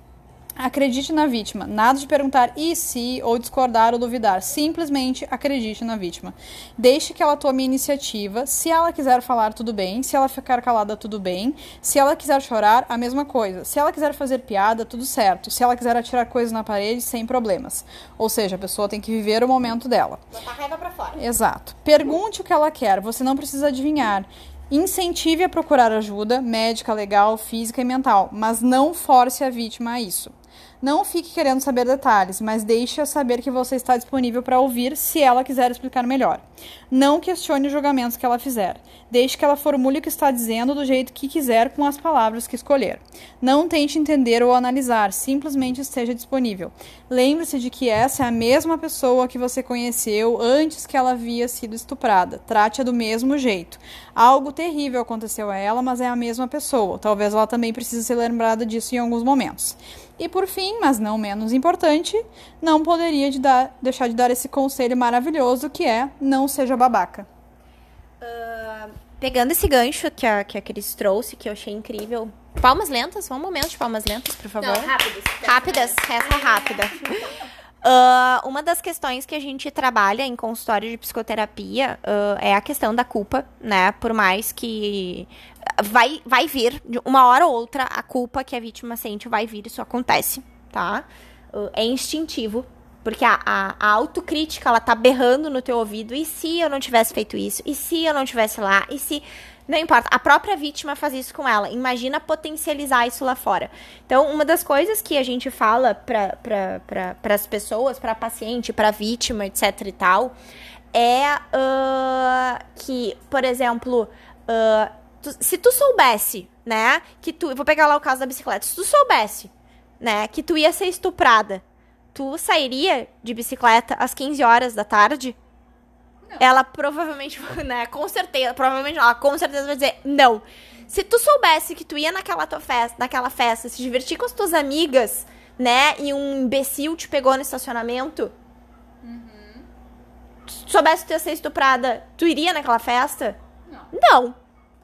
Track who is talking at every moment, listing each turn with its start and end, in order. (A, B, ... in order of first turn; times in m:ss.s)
0:00.6-0:20.2 A
0:20.3-0:21.2 B
0:21.2-1:07.3 A
1:08.2-1:14.9 B
1:14.6-1:17.1 C
1:15.4-1:17.2 B
1:17.8-1:50.3 B
1:50.9-2:01.6 B
2:02.1-2:05.4 B
2:06.4-2:18.3 B
2:19.0-2:19.6 A
2:20.5-2:23.4 B
2:23.9-2:24.4 B